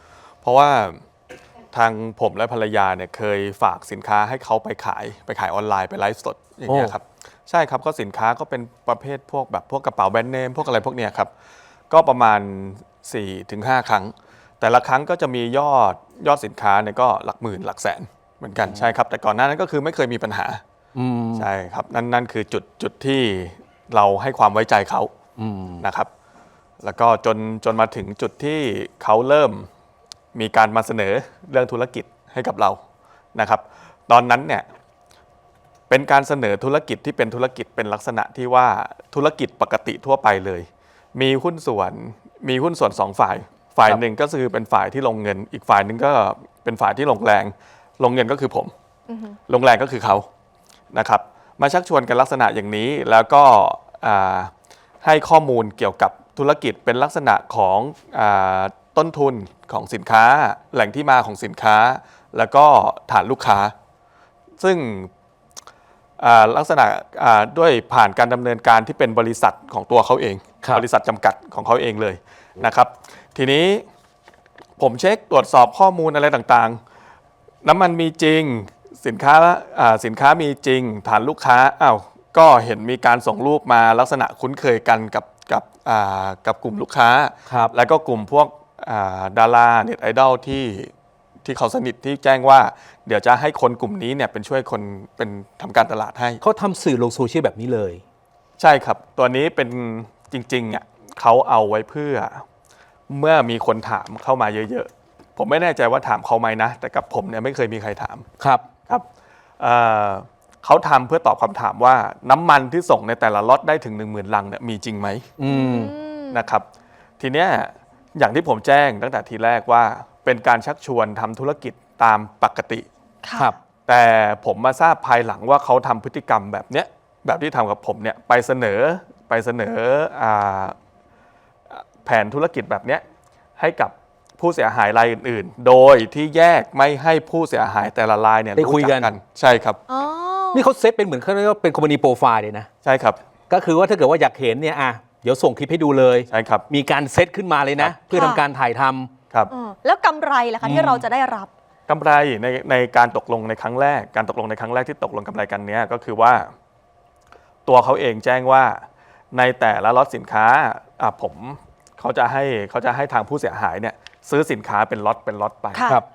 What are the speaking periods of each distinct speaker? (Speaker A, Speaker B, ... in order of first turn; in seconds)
Speaker A: 0.4-1.0, 1.7-11.3, 11.9-20.6, 21.3-25.1, 25.8-26.1, 26.8-29.7, 30.3-32.8, 33.3-34.6, 35.9-48.7, 49.5-50.3, 50.9-63.7, 64.6-65.1, 66.2-73.8, 74.8-76.8, 77.6-90.9, 91.4-96.4, 98.6-102.4, 103.1-109.0, 109.6-115.3, 116.3-116.7, 117.2-122.8, 123.8-130.8, 131.7-133.0, 133.6-139.8, 142.8-143.2, 146.3-146.6, 150.6-151.1, 151.9-156.5, 157.7-165.9
Speaker B: 6.7-7.0, 18.6-18.9, 20.9-21.5, 25.4-25.9, 87.5-87.7, 96.4-98.0, 108.4-108.7, 115.4-115.9, 138.6-139.1, 140.5-142.7, 143.5-149.1
Speaker C: 49.1-49.4, 115.5-116.4, 123.2-123.5, 139.9-140.7, 148.1-148.4, 149.5-151.5, 165.7-166.0